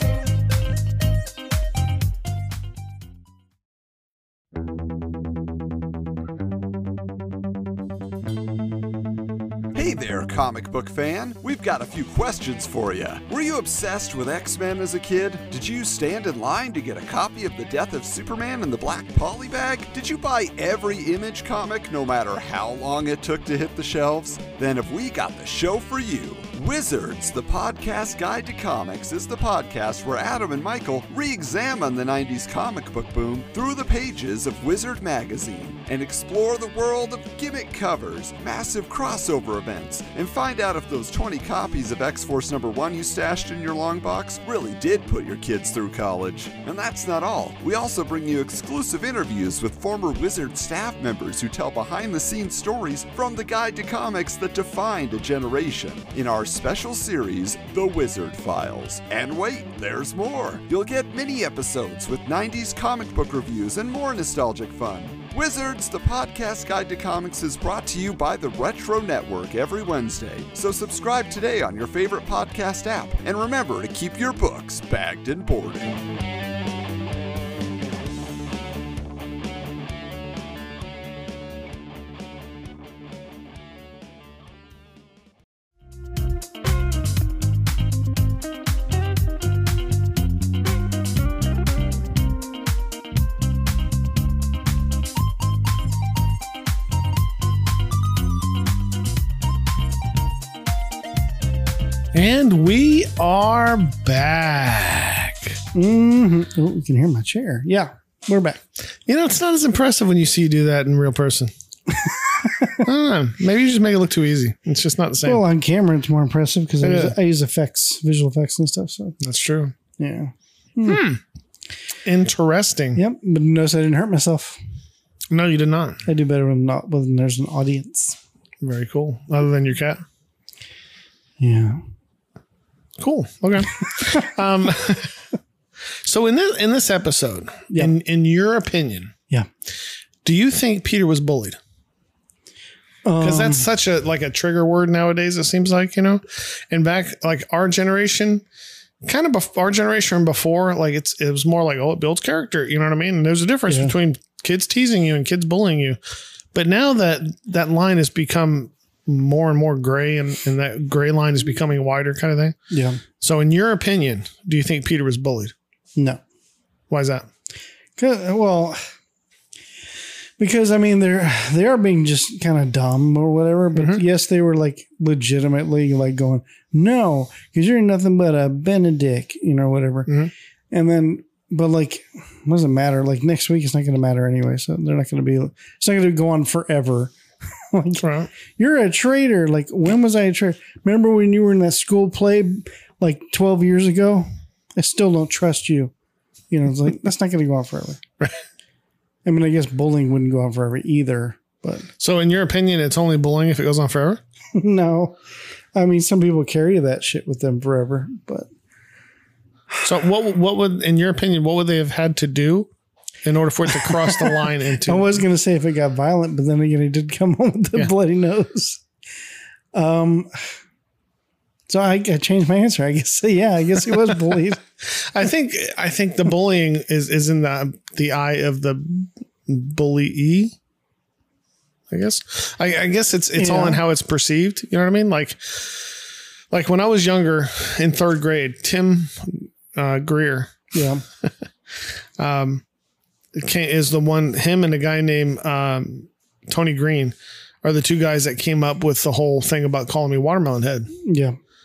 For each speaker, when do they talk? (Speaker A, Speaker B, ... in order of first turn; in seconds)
Speaker A: 9.7-75.9
Speaker B: 102.1-105.5, 109.0-111.5, 112.8-115.4, 116.8-117.1, 119.2-119.7, 120.8-121.2, 122.0-123.0, 125.3-126.0, 128.6-130.0, 133.0-135.1, 136.0-139.1, 140.2-141.6, 143.2-148.4, 149.0-156.0, 156.5-162.6, 163.2-165.5, 166.9-167.3, 173.7-174.0, 180.1-180.3, 188.0-188.3, 202.0-204.2, 209.8-212.7, 213.2-215.2, 224.8-230.5, 231.9-240.7, 242.2-242.6, 243.3-250.9
Speaker C: 105.7-108.6, 112.4-112.8, 115.2-119.2, 120.0-121.0, 122.9-124.6, 126.0-128.2, 131.4-131.8, 133.9-134.3, 143.0-143.7, 153.7-153.9, 162.7-163.0, 168.0-168.8, 170.4-180.1, 180.7-187.2, 187.7-195.9, 196.5-198.0, 199.2-201.9, 204.5-205.2, 205.7-208.5, 213.7-218.8, 219.7-220.3, 221.7-224.6, 233.4-233.8, 240.7-241.0, 251.0-251.4